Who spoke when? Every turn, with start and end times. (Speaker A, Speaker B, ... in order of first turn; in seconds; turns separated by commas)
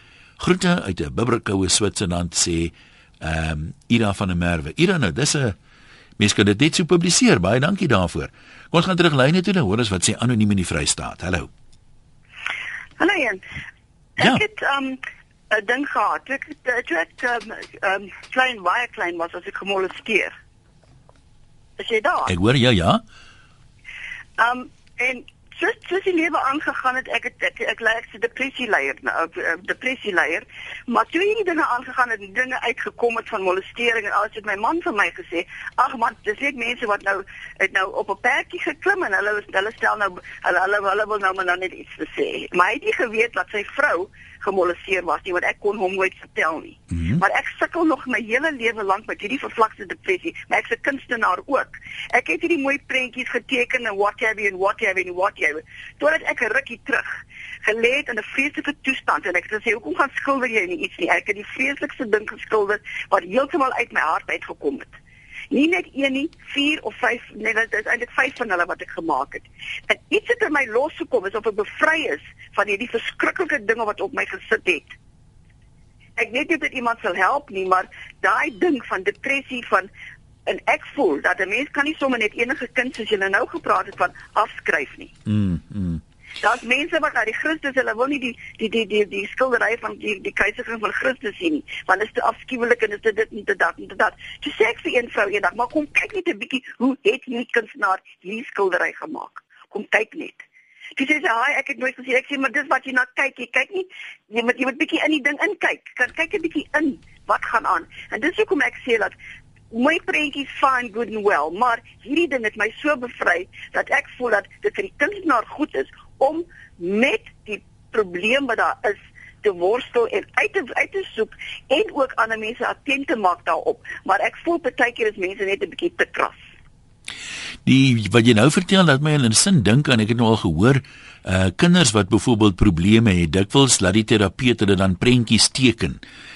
Speaker A: 0.4-5.5, Speaker A: 6.2-11.5, Speaker B: 13.0-13.4, Speaker B: 14.2-20.3, Speaker B: 21.8-22.3, Speaker A: 22.2-23.0, Speaker B: 24.4-64.9, Speaker A: 46.9-47.2, Speaker B: 65.5-74.9, Speaker B: 76.2-79.9, Speaker B: 80.5-85.1, Speaker A: 85.3-86.0, Speaker B: 86.4-100.4, Speaker B: 101.0-109.1, Speaker B: 109.7-126.4, Speaker A: 127.7-136.0